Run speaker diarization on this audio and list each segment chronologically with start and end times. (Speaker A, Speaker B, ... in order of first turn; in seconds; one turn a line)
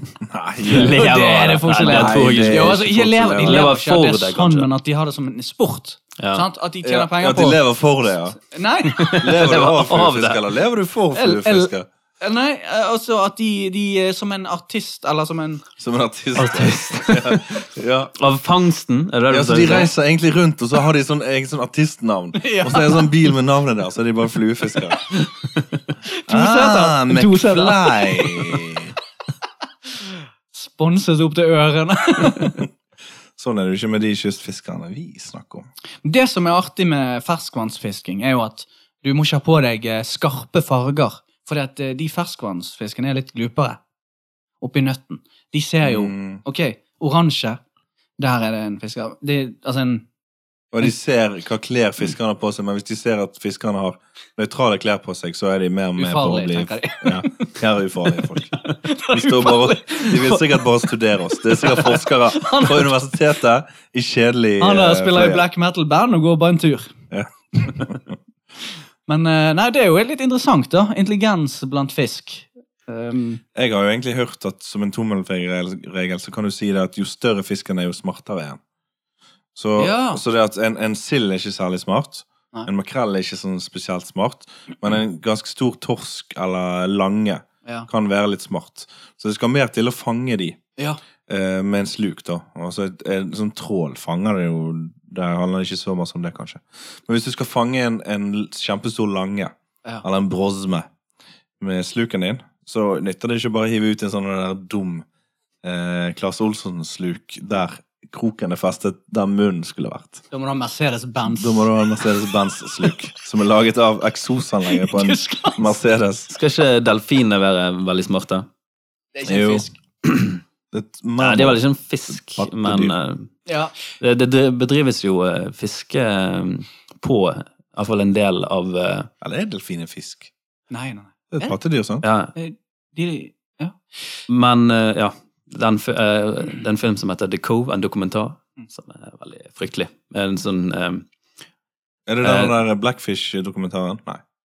Speaker A: 0.2-1.2
Speaker B: 0.7-2.8
Speaker C: 0.7-7.6
Speaker A: 1.8-3.7
Speaker B: 3.4-4.7
Speaker B: 6.2-6.4
Speaker A: 6.8-8.4
Speaker C: 8.4-9.7
Speaker B: 8.9-10.4
Speaker A: 9.1-11.9
Speaker C: 11.1-15.6
Speaker A: 15.8-18.1
Speaker B: 16.4-19.9
Speaker A: 19.3-25.0
Speaker C: 22.4-23.1
Speaker C: 26.1-28.8
Speaker A: 26.3-28.9
Speaker C: 30.5-32.6
Speaker A: 33.4-35.7
Speaker C: 36.0-43.8
Speaker C: 44.6-47.6
Speaker A: 45.8-46.4
Speaker C: 48.2-50.0
Speaker A: 50.7-58.6
Speaker C: 56.0-57.6
Speaker C: 58.2-62.9
Speaker A: 59.1-65.4
Speaker C: 64.6-67.0
Speaker A: 67.1-68.1
Speaker C: 69.1-73.4
Speaker A: 73.5-78.6
Speaker A: 79.5-90.6
Speaker C: 79.8-80.2
Speaker A: 91.3-99.5
Speaker A: 100.0-100.8
Speaker A: 101.6-105.0
Speaker A: 105.6-110.2
Speaker C: 110.3-112.9
Speaker A: 111.3-116.3
Speaker C: 114.7-115.8
Speaker B: 116.3-118.5
Speaker C: 119.1-119.8
Speaker A: 119.2-119.7
Speaker B: 120.0-120.4
Speaker A: 120.7-121.6
Speaker B: 121.2-123.3
Speaker A: 122.1-122.9
Speaker C: 123.5-123.7
Speaker B: 123.9-129.1
Speaker A: 129.2-130.3
Speaker C: 130.7-131.6
Speaker A: 131.3-132.0
Speaker B: 132.0-132.3
Speaker C: 132.3-133.8
Speaker B: 134.3-141.1
Speaker A: 142.1-144.2
Speaker B: 142.2-142.6